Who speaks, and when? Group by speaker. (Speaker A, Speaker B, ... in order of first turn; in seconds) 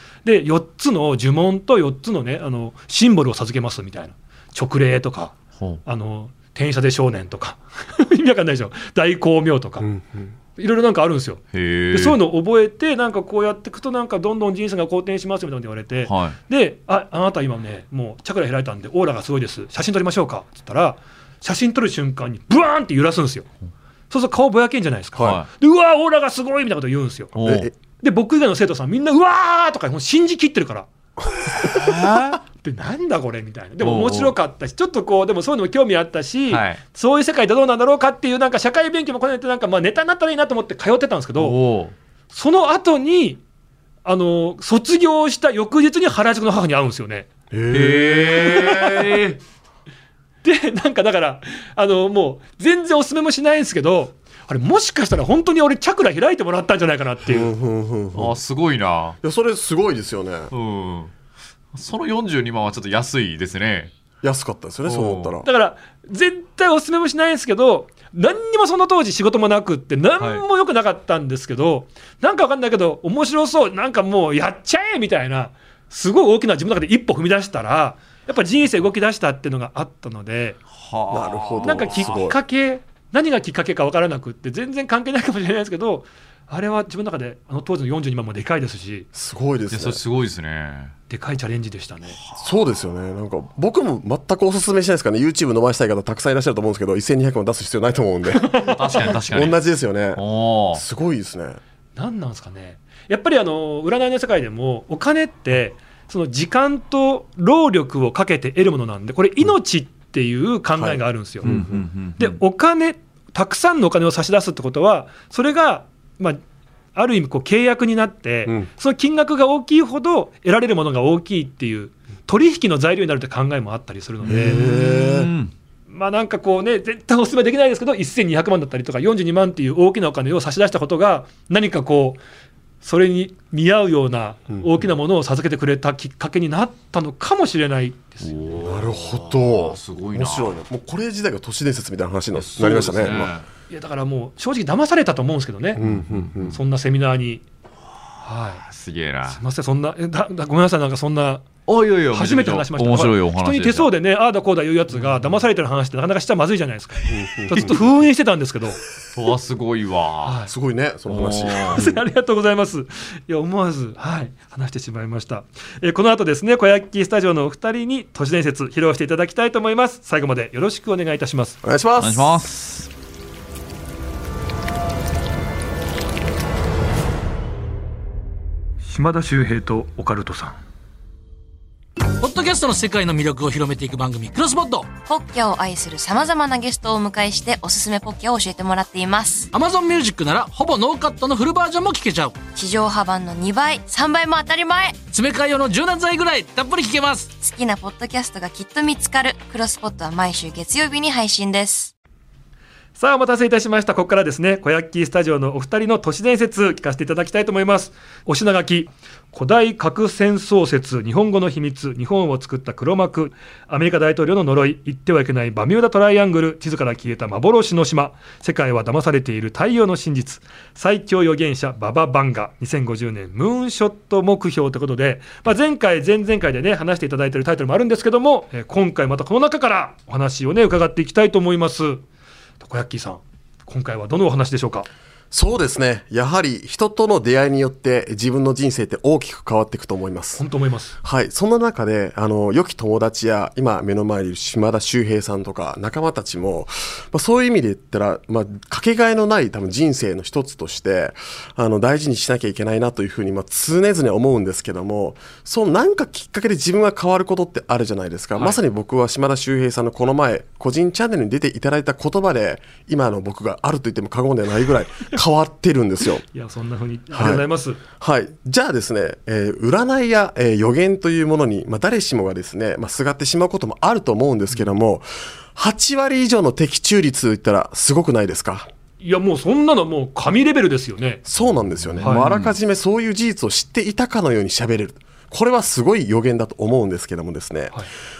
Speaker A: 0.2-9.9, 10.6-23.5, 24.1-27.4, 28.0-30.9, 32.5-41.5, 42.3-43.4, 44.0-47.3, 50.4-57.5, 65.4-80.6, 81.6-89.1, 91.1-92.2, 98.3-99.1, 102.0-111.5, 112.2-116.4, 116.9-124.7, 125.9-132.2, 132.8-138.3, 143.7-145.8, 146.5-147.4, 148.2-148.6, 149.3-151.4, 152.1-158.8, 160.2-160.5, 161.7-171.6, 178.8-180.6, 202.9-232.0, 232.6-234.9, 240.3-241.0, 266.3-267.8, 279.0-281.2
Speaker B: 9.8-10.3, 27.4-27.7, 47.5-49.2, 57.2-58.4, 59.2-60.5, 64.2-65.5, 81.1-82.3, 89.1-90.0, 92.4-100.2, 100.7-101.6, 110.8-111.8, 124.2-125.3, 138.6-143.3, 145.8-146.6, 157.1-157.8, 160.5-162.0, 171.6-172.4, 235.3-240.4, 241.0-266.2, 267.1-278.7, 281.2-287.8
Speaker C: 11.5-12.2, 16.1-16.4, 25.2-25.5, 27.3-27.7, 31.6-32.4, 33.8-34.3, 36.5-36.8, 41.4-41.9, 47.7-49.4, 58.1-59.2, 60.5-61.1, 61.7-63.9, 64.9-65.4, 80.7-82.1, 89.7-90.9, 98.6-99.6, 100.1-100.8, 111.4-112.4, 124.2-125.5, 138.2-140.6, 142.3-143.5, 145.8-146.6, 148.6-149.4, 151.7-153.9, 159.1-160.4, 161.1-161.8, 172.0-172.9, 282.0-282.5
Speaker D: 182.2-184.9, 189.5-192.4, 195.1-197.3
Speaker E: 185.1-189.5, 192.5-195.0, 197.4-201.9